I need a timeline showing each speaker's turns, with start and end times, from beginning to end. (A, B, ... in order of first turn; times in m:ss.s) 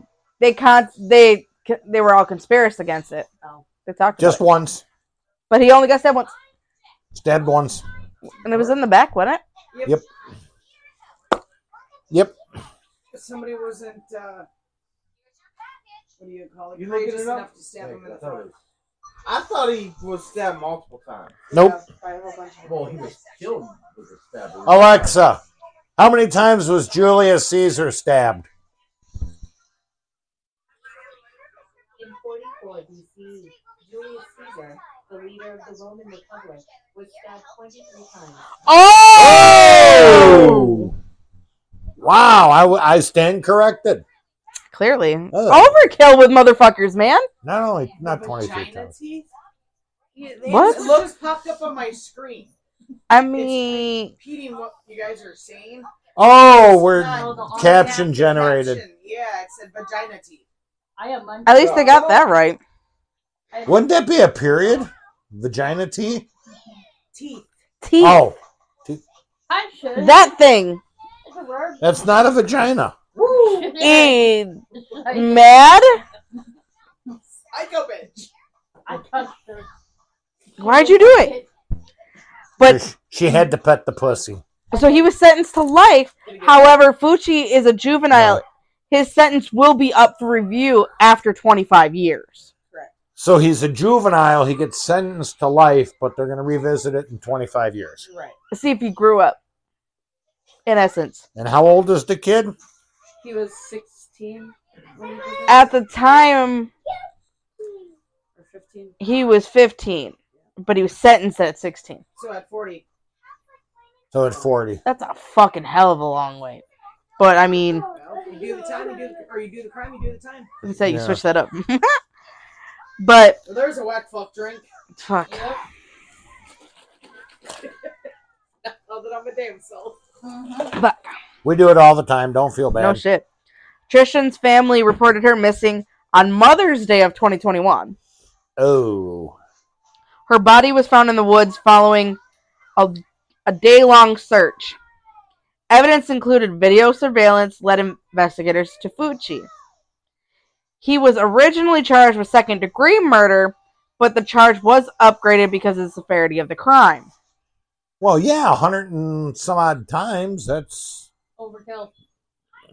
0:00.4-0:03.3 A
0:03.8-0:04.4 A
0:04.2-0:04.8 B
0:05.5-0:06.4 A
0:07.1-0:07.8 B
0:08.4-0:09.4 A
0:09.7-0:10.0 C
0:12.1-0:12.4 B
0:13.1-0:14.5 C
0:16.2-0:18.5 C
0:16.7-0:17.6 D
0:17.8-0:18.6 E
0:19.2-0:21.4 D
0:21.5-0:23.3 F
0:21.5-0:21.8 B
0:22.6-0:25.3 E
0:24.6-0:25.4 B
0:26.0-0:28.5 B
0:32.0-0:38.5 G
0:38.6-0:40.9 A
0:39.2-0:40.9 B
0:42.0-0:44.0 B
0:44.7-0:47.3 A
0:45.3-0:45.8 B
0:47.4-0:48.9 B
0:48.0-0:49.3 C
0:50.2-0:52.5 C
0:50.5-0:51.0 A
0:50.5-0:51.0 F
0:53.1-0:54.1 A
0:53.3-0:55.9 C
0:56.2-0:58.8 B
0:56.9-1:00.4 C
0:57.0-0:58.1 H
1:01.0-1:02.2 H
1:01.4-1:02.6 A
1:03.5-1:03.9 H
1:03.6-1:06.3 B
1:07.1-1:07.5 C
1:07.8-1:08.2 A
1:08.0-1:09.0 B
1:09.5-1:10.4 H
1:10.0-1:10.8 A
1:11.2-1:12.3 H
1:11.8-1:13.0 B
1:13.2-1:13.8 C
1:13.2-1:15.6 H
1:13.8-1:14.6 A
1:15.1-1:16.0 A
1:17.5-1:18.3 C
1:18.9-1:19.7 H
1:20.6-1:21.5 H
1:20.6-1:21.4 A
1:22.6-1:22.8 A
1:22.6-1:24.4 B
1:24.7-1:25.1 H
1:24.7-1:32.5 A
1:26.3-1:26.8 C
1:28.1-1:28.4 B
1:33.2-1:38.1 B
1:38.0-1:38.4 F
1:38.5-1:39.4 A
1:40.7-1:41.2 A
1:41.4-1:42.6 B
1:43.2-1:45.6 F
1:45.0-1:45.6 C
1:45.5-1:46.7 A
1:48.4-1:49.0 F
1:49.0-1:52.0 A
1:52.2-1:52.8 C
1:54.1-1:54.8 B
1:54.8-1:56.6 A
1:57.2-1:57.8 A
1:57.8-2:00.5 C
1:58.2-1:59.1 H
2:00.6-2:02.0 A
2:00.8-2:01.2 B
2:03.0-2:03.4 A
2:03.4-2:04.7 C
2:05.0-2:05.5 A
2:05.3-2:05.6 H
2:08.6-2:10.0 C
2:10.2-2:10.8 H
2:10.7-2:11.1 A
2:11.4-2:13.0 B
2:12.8-2:13.3 A
2:13.9-2:18.0 A
2:18.6-2:19.4 B
2:20.3-2:22.2 A
2:22.8-2:24.8 A
2:25.7-2:29.5 A
2:30.8-2:37.1 A
2:38.0-2:41.1 B
2:41.4-2:41.9 H